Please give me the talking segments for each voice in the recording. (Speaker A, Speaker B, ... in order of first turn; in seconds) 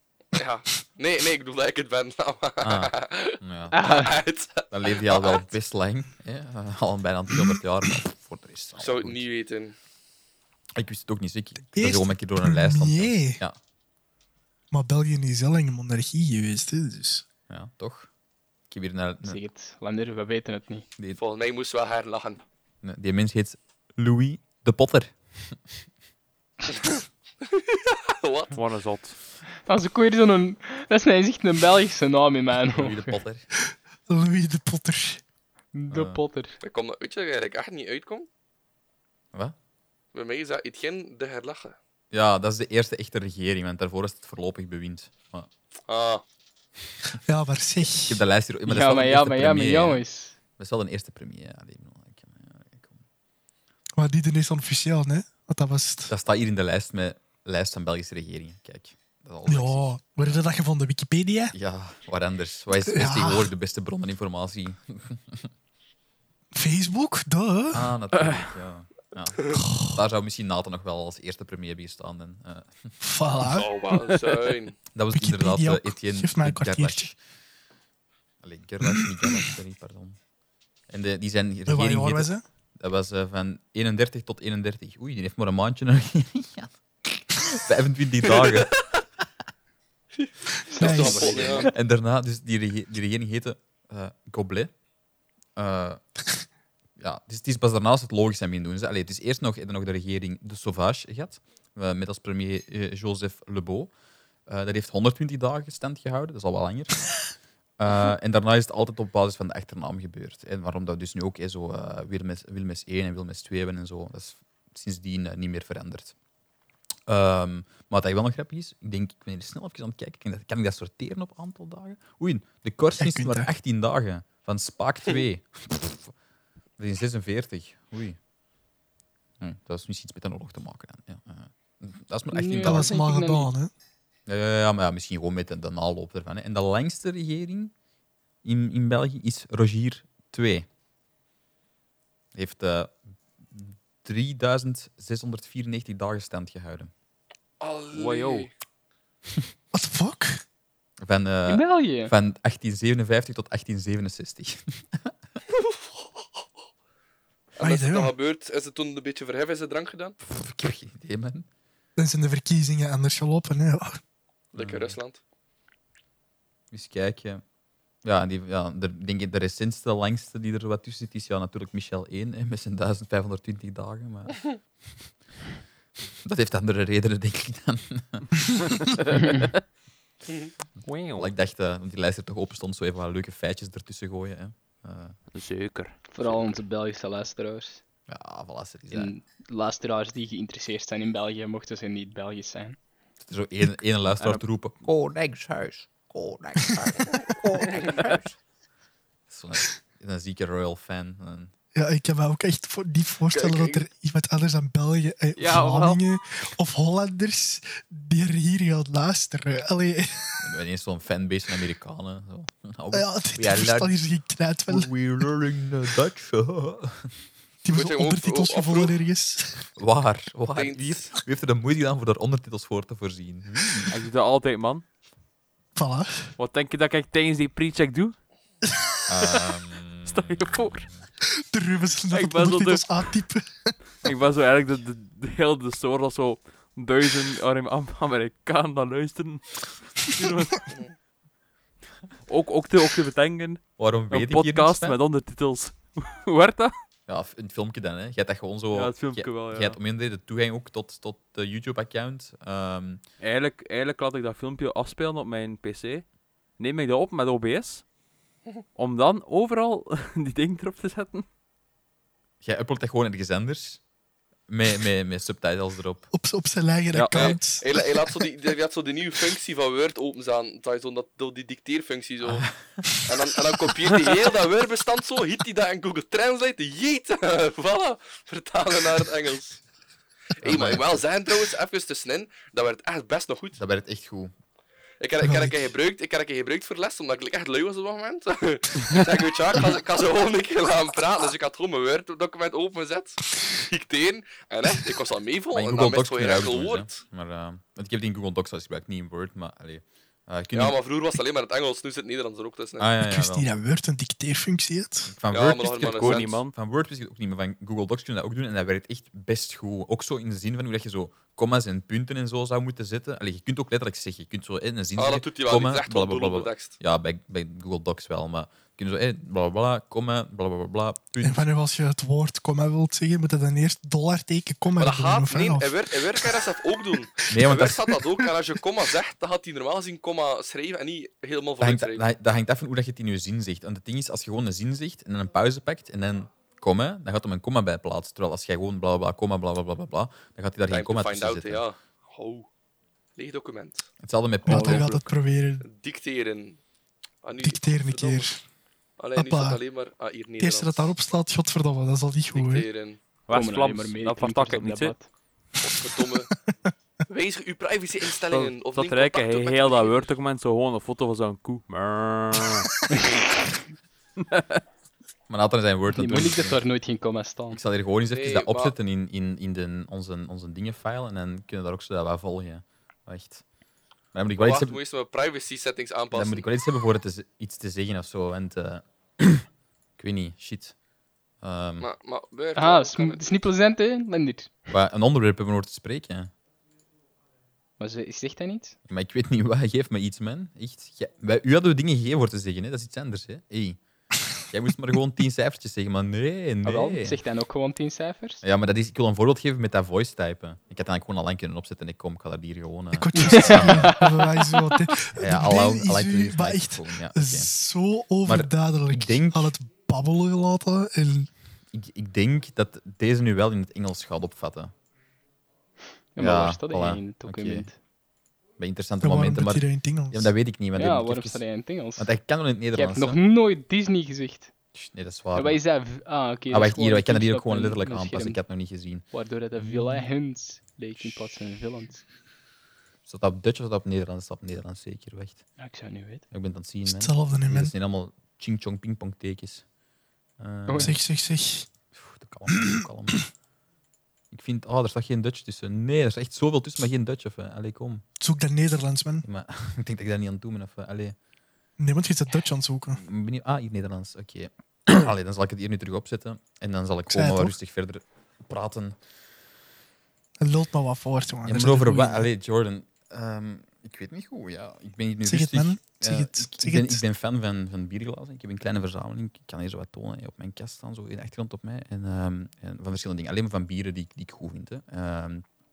Speaker A: 0.3-5.5, 8.8-9.7, 21.2-22.4, 27.4-28.6, 36.6-38.3, 40.1-41.8, 45.9-46.2, 73.4-74.8, 88.4-88.8, 90.2-91.7, 147.6-148.5, 157.6-160.2, 164.5-165.2, 203.3-203.8, 217.7-218.9, 220.5-221.1, 267.1-279.6, 280.4-283.6, 285.0-297.0, 300.5-302.9, 305.3-306.4, 314.9-316.8, 324.8-332.0, 340.7-342.5, 343.1-343.9, 345.6-346.6, 347.2-348.3, 349.0-350.9, 352.3-353.0, 355.6-356.3, 357.1-360.1, 368.1-368.7, 374.4-376.5, 381.8-383.2
Speaker B: 2.6-3.8, 4.7-9.2, 10.8-13.6, 17.5-18.1, 18.7-19.4, 22.8-25.6, 32.7-33.5, 35.9-36.2, 42.1-45.5, 47.9-50.0, 50.6-53.0, 56.1-60.4, 61.5-65.5, 67.7-73.0, 74.9-77.2, 78.4-80.2, 80.9-88.8, 91.0-94.7, 95.5-96.0, 97.0-103.9, 104.5-107.2, 107.8-116.1, 117.1-126.1, 126.8-128.2, 129.4-132.9, 134.2-137.7, 138.4-140.7, 142.3-146.9, 151.0-155.1, 160.2-161.4, 164.6-165.0, 166.7-167.4, 168.0-174.5, 176.2-179.0, 181.1-185.2, 188.1-189.1, 193.2-194.8, 199.3-201.5, 210.4-213.9, 214.7-217.1, 219.8-223.9, 229.1-230.9, 243.8-245.0, 247.1-253.0, 262.4-263.8, 264.5-266.1, 272.2-272.8, 280.4-281.0, 283.6-284.3, 295.5-300.8, 302.8-303.5, 305.1-321.4, 327.3-327.8, 331.6-341.6, 344.0-345.0, 365.3-366.6, 367.5-373.4, 374.1-374.8, 376.1-379.4, 380.0-380.8, 381.4-381.9, 384.7-386.3, 388.9-393.8, 394.4-397.2, 398.4-404.0, 405.1-407.5, 408.2-409.5, 411.7-414.7, 416.2-417.7, 418.6-423.2, 424.7-425.6, 426.5-430.1, 433.1-435.4, 436.3-439.6, 440.4-441.0, 441.9-443.3, 444.3-448.0, 449.2-451.1, 452.9-459.0, 461.4-475.4
Speaker C: 3.7-4.1, 19.2-20.9, 29.6-33.2, 35.7-36.6, 48.6-50.4, 90.8-91.6, 132.3-133.5, 151.5-152.1, 186.1-187.8, 188.9-192.8, 353.3-355.1, 365.9-367.6, 382.6-384.6, 387.8-388.8, 396.6-398.4, 403.1-404.4, 416.1-417.8, 420.7-422.1, 422.7-424.5, 425.3-428.4, 429.1-432.0, 435.6-436.2, 440.7-440.9
Speaker D: 11.7-13.4, 14.7-17.2, 34.1-35.2, 47.2-48.2, 54.0-56.1, 59.5-61.5, 62.8-63.5, 66.5-67.9, 73.0-73.7, 75.1-77.1, 81.7-82.4, 90.7-91.4, 123.0-123.5, 132.6-133.7, 149.7-150.4, 157.6-158.1, 161.9-164.0, 201.7-210.4, 212.9-214.9, 217.6-219.7, 225.7-226.3, 231.3-233.8, 266.1-267.9, 285.2-285.7, 303.0-305.1, 321.2-326.4, 344.4-345.7, 347.4-348.4, 349.1-349.6, 350.4-352.7, 355.9-356.5, 402.9-411.3, 419.0-420.3, 436.9-437.7, 440.8-441.7, 448.2-449.2, 451.8-453.0, 457.1-457.5, 460.4-462.3, 465.2-467.0
Speaker E: 28.5-29.2, 73.9-74.2, 147.9-148.5, 180.8-181.3, 185.3-185.9, 194.2-198.2, 205.3-206.0, 223.9-224.8, 226.4-228.2, 230.0-230.9, 232.1-232.9, 234.0-240.7, 242.2-246.7, 248.7-249.8, 253.2-256.1, 256.6-257.8, 258.7-261.2, 266.9-267.3, 305.9-306.5, 344.5-344.8, 353.3-354.9, 358.3-362.7, 364.2-364.6